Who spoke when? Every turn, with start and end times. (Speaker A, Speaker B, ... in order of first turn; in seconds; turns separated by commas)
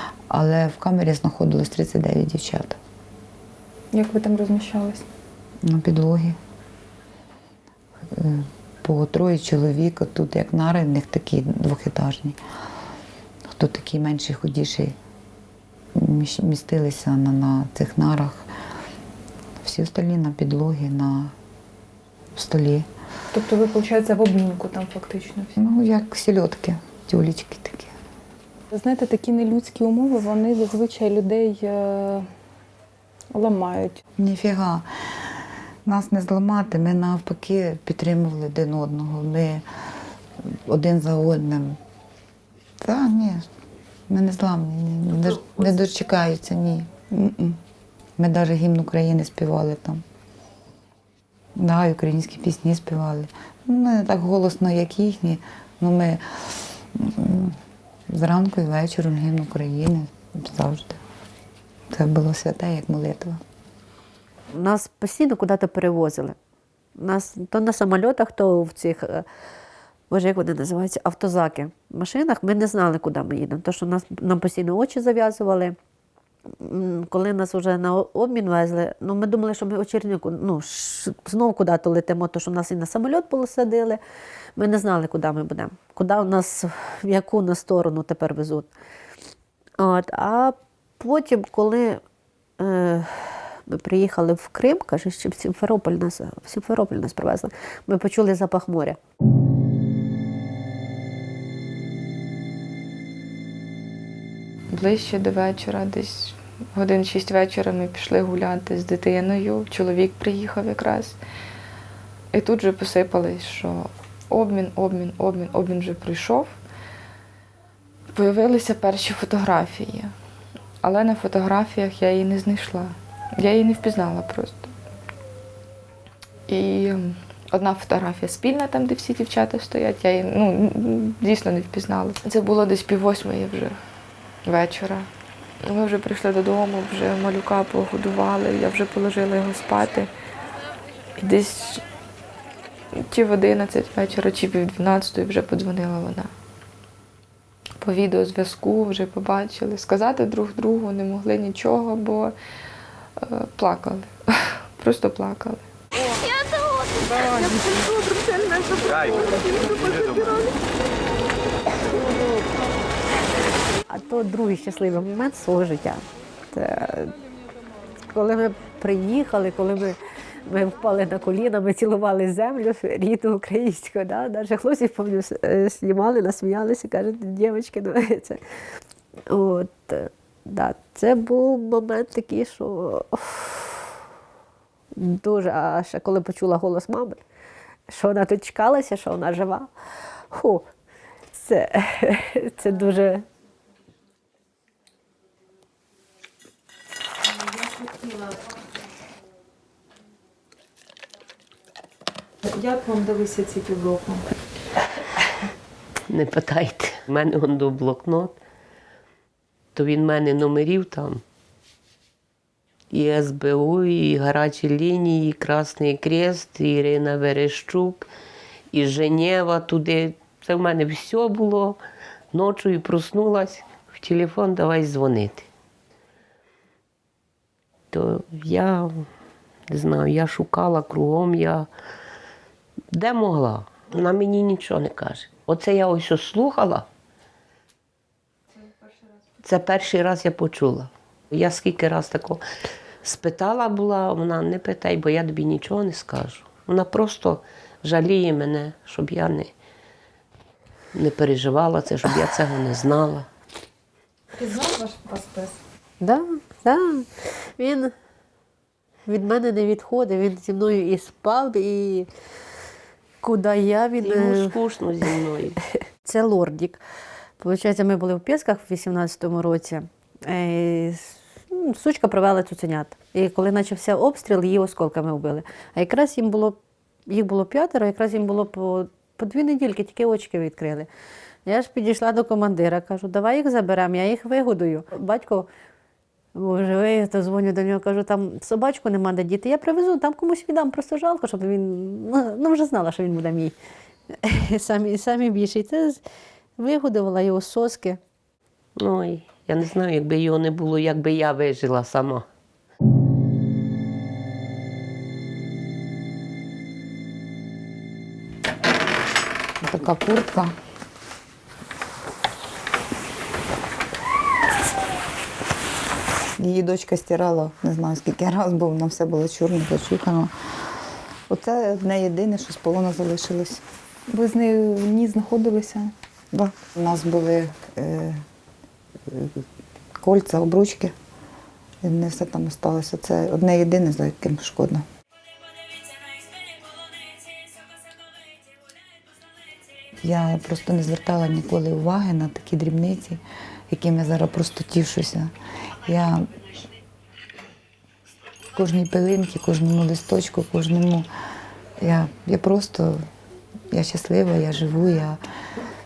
Speaker A: 0.3-2.8, Speaker B: 3.9-5.0, Speaker A: 5.6-6.4, Speaker A: 8.1-12.4, Speaker A: 13.5-14.9, Speaker A: 15.9-18.4, Speaker A: 19.6-21.3, Speaker A: 22.3-22.9, Speaker B: 23.3-25.6, Speaker A: 25.6-27.9, Speaker B: 28.7-32.3, Speaker B: 33.3-34.0, Speaker A: 34.2-39.6, Speaker A: 40.4-41.8, Speaker A: 42.8-43.5, Speaker A: 44.1-47.6, Speaker A: 48.2-50.0, Speaker A: 51.6-61.0, Speaker A: 61.9-63.4, Speaker C: 64.5-66.4, Speaker C: 67.0-69.2, Speaker C: 70.1-75.8, Speaker C: 76.5-84.0, Speaker C: 84.6-88.7, Speaker C: 89.8-92.0, Speaker C: 92.6-99.0, Speaker D: 104.7-111.2, Speaker D: 112.3-116.6, Speaker D: 118.1-120.1, Speaker D: 120.8-124.7, Speaker D: 126.5-133.8, Speaker D: 134.4-135.1, Speaker D: 135.6-140.1, Speaker D: 141.2-141.8, Speaker D: 142.9-146.3, Speaker D: 147.8-152.3, Speaker D: 153.2-155.6, Speaker C: 156.7-160.7, Speaker C: 161.9-162.4, Speaker C: 163.9-167.2, Speaker C: 168.1-178.4, Speaker C: 179.3-183.9, Speaker C: 184.9-187.2, Speaker C: 187.9-189.7, Speaker C: 190.3-190.7, Speaker C: 191.3-193.2, Speaker B: 197.7-198.4, Speaker B: 202.4-204.3, Speaker E: 206.1-208.3, Speaker E: 209.7-211.2, Speaker E: 212.9-218.1, Speaker E: 218.7-221.8, Speaker E: 222.3-225.5, Speaker E: 227.9-229.1, Speaker E: 229.7-231.7, Speaker E: 232.9-236.9, Speaker E: 239.4-242.4, Speaker E: 243.0-249.5, Speaker E: 250.9-253.3, Speaker B: 254.3-255.6, Speaker C: 256.0-257.9, Speaker C: 259.1-262.1, Speaker C: 263.2-264.6, Speaker E: 264.0-265.6, Speaker C: 266.0-266.8, Speaker C: 267.4-280.9, Speaker C: 281.4-285.5, Speaker C: 286.3-293.5, Speaker C: 294.1-296.0, Speaker C: 296.6-298.0, Speaker E: 298.8-302.3, Speaker A: 309.6-310.5, Speaker A: 316.4-323.6, Speaker B: 324.1-325.9, Speaker A: 326.3-328.2, Speaker A: 329.1-329.4, Speaker A: 330.0-330.9, Speaker A: 331.8-334.9, Speaker A: 340.0-345.3, Speaker A: 345.8-346.3, Speaker A: 348.5-351.1, Speaker A: 351.8-353.0, Speaker A: 353.7-355.2